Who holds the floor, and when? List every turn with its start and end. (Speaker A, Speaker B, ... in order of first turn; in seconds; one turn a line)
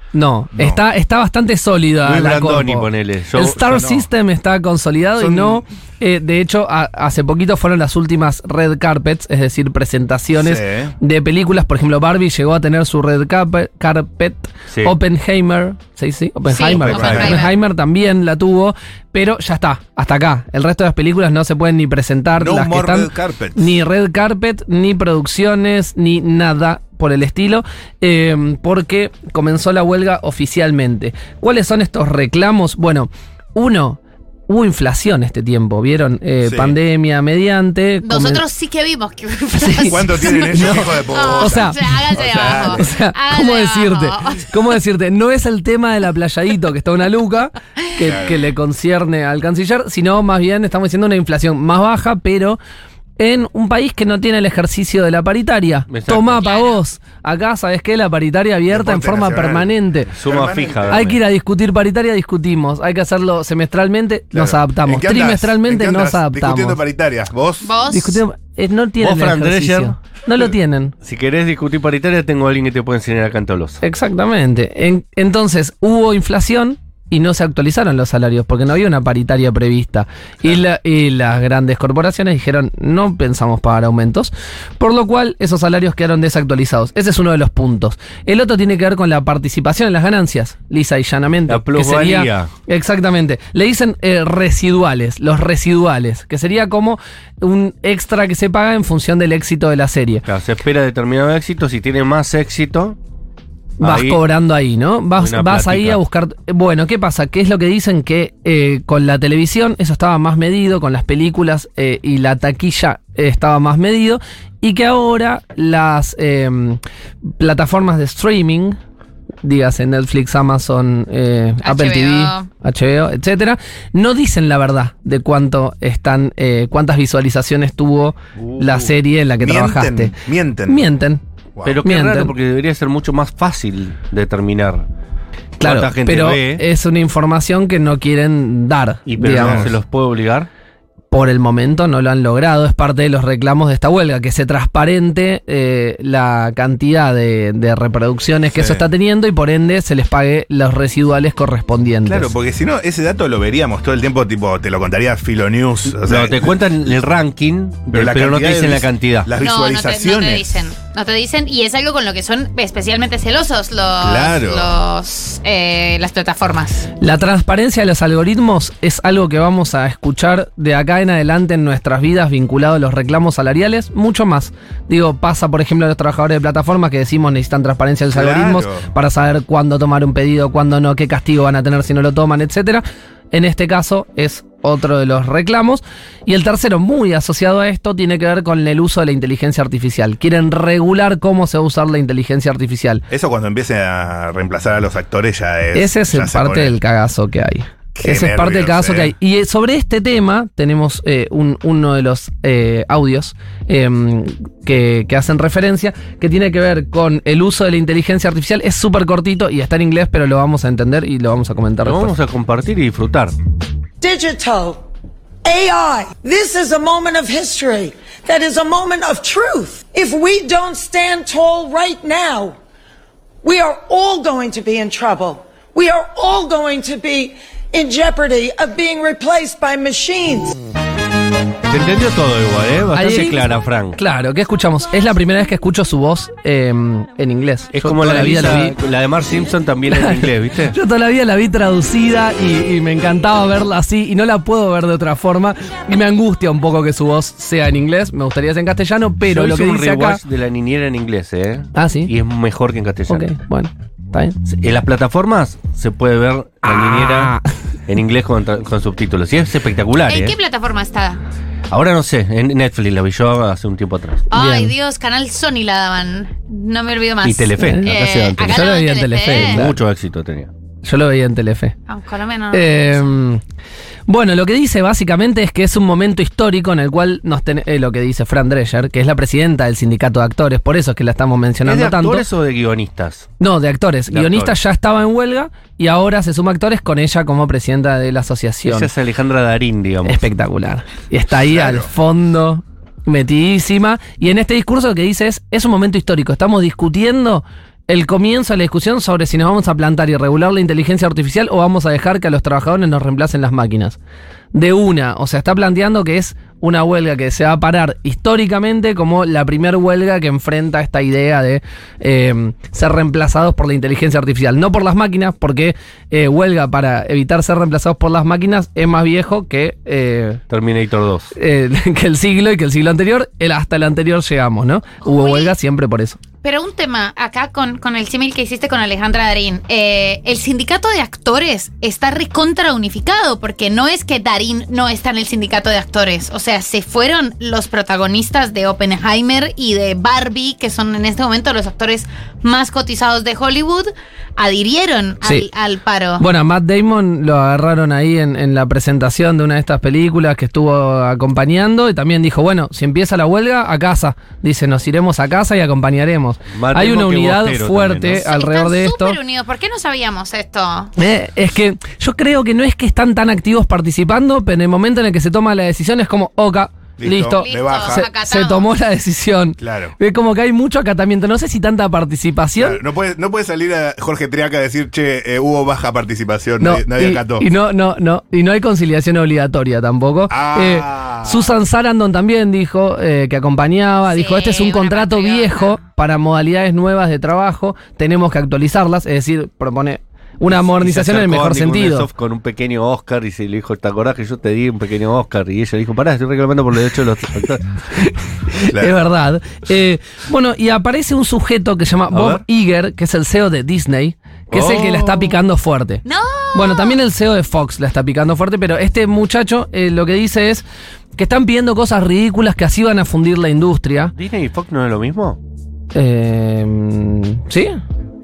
Speaker A: 0.1-38.4
Speaker B: 0.6-0.8
Speaker C: 2.0-3.8
Speaker B: 3.7-4.0
Speaker B: 5.2-5.6
Speaker B: 10.3-10.9
Speaker D: 16.5-17.5
Speaker C: 16.7-17.4
Speaker B: 16.9-17.4
Speaker B: 22.4-23.7
Speaker B: 36.4-36.8
Speaker D: 38.0-44.6
Speaker A: 39.6-41.8
Speaker B: 39.9-42.9
Speaker A: 42.6-52.6
Speaker B: 48.0-48.4
Speaker A: 53.2-60.1
Speaker C: 55.9-56.4
Speaker D: 56.4-56.8
Speaker B: 58.7-61.0
Speaker C: 60.1-61.2
Speaker A: 60.9-66.8
Speaker B: 64.3-67.7
Speaker D: 67.6-68.2
Speaker A: 67.9-70.9
Speaker C: 69.0-69.9
Speaker C: 71.0-73.8
Speaker A: 73.8-100.2
Speaker C: 91.5-92.5
Speaker C: 100.2-103.0
Speaker A: 103.8-116.8
Speaker C: 103.8-104.2
Speaker C: 105.2-106.0
Speaker A: 117.4-118.8
Speaker A: 119.4-130.1
Speaker D: 121.6-122.5
Speaker B: 129.4-130.8
Speaker A: 130.7-131.2
Speaker C: 131.6-134.8
Speaker A: 131.8-132.3
Speaker A: 135.6-139.7
Speaker C: 135.6-136.6
Speaker C: 139.1-140.5
Speaker B: 139.2-139.7
Speaker A: 141.1-152.3
Speaker B: 148.5-148.8
Speaker B: 152.1-156.6
Speaker C: 155.9-159.3
Speaker B: 157.9-160.6
Speaker D: 159.4-166.9
Speaker B: 164.0-164.7
Speaker A: 167.0-193.0
Speaker B: 178.1-178.9
Speaker B: 193.1-196.8
Speaker A: 195.7-212.1
Speaker B: 197.9-199.1
Speaker C: 211.8-213.3
Speaker E: 214.0-214.8
Speaker E: 215.4-222.6
Speaker E: 223.4-230.6
Speaker C: 231.7-234.0
Speaker A: 232.9-233.4
Speaker A: 233.9-238.8
Speaker C: 237.7-240.7
Speaker A: 239.9-250.2
Speaker C: 249.2-253.3
Speaker A: 251.7-252.1
Speaker A: 253.1-254.4
Speaker C: 254.5-257.3
Speaker A: 256.6-257.6
Speaker C: 257.9-260.4
Speaker D: 260.0-261.2
Speaker C: 261.7-264.2
Speaker D: 264.3-269.6
Speaker A: 264.3-264.7
Speaker C: 267.2-268.7
Speaker A: 267.6-267.9
Speaker A: 268.5-269.8
Speaker C: 269.2-270.5
Speaker A: 270.8-271.7
Speaker D: 271.9-273.0
Speaker A: 272.5-273.4
Speaker A: 274.1-282.2
Speaker C: 281.6-283.3
Speaker A: 283.4-288.9
Speaker C: 284.1-284.6
Speaker C: 288.6-290.2
Speaker A: 290.0-304.0
Speaker B: 291.5-291.9
Speaker A: 304.5-320.4
Speaker C: 320.5-321.3
Speaker A: 321.3-326.2
Speaker D: 325.0-325.5
Speaker D: 326.4-346.2
Speaker A: 345.2-345.5
Speaker A: 346.2-359.2
Speaker C: 356.5-358.3
Speaker D: 358.1-360.9
Speaker A: 361.0-372.8
Speaker B: 367.0-368.0
Speaker D: 367.3-368.6
Speaker B: 369.6-369.9
Speaker B: 372.6-377.4
Speaker A: 376.6-392.1
Speaker B: 380.3-381.5
Speaker D: 384.1-385.8
Speaker C: 390.5-397.8
Speaker A: 397.9-406.0
Speaker B: 398.7-399.0
Speaker C: 402.1-402.4
Speaker C: 404.5-405.4
Speaker D: 406.0-407.0
Speaker A: 406.5-410.6
Speaker A: 411.1-414.1
Speaker C: 414.1-415.4
Speaker A: 415.9-417.8